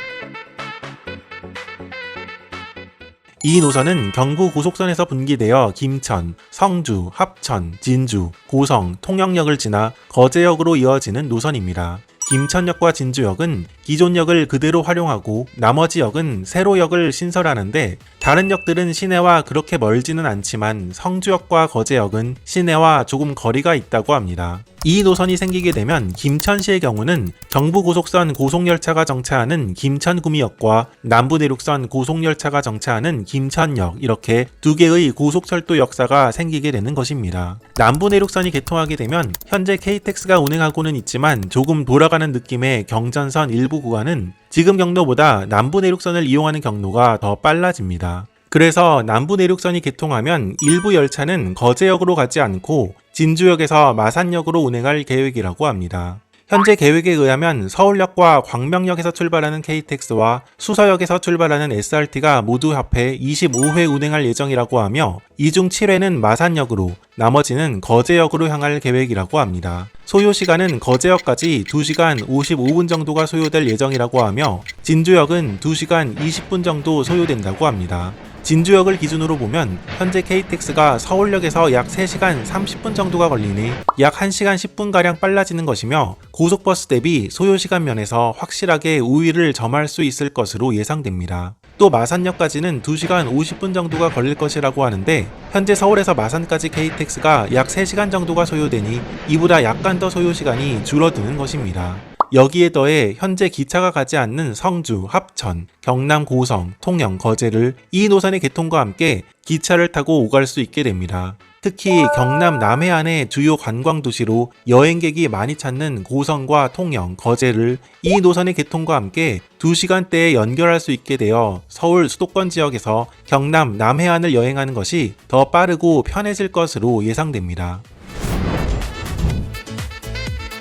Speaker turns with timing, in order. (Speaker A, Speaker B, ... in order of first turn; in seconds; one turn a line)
Speaker A: 3.4-127.8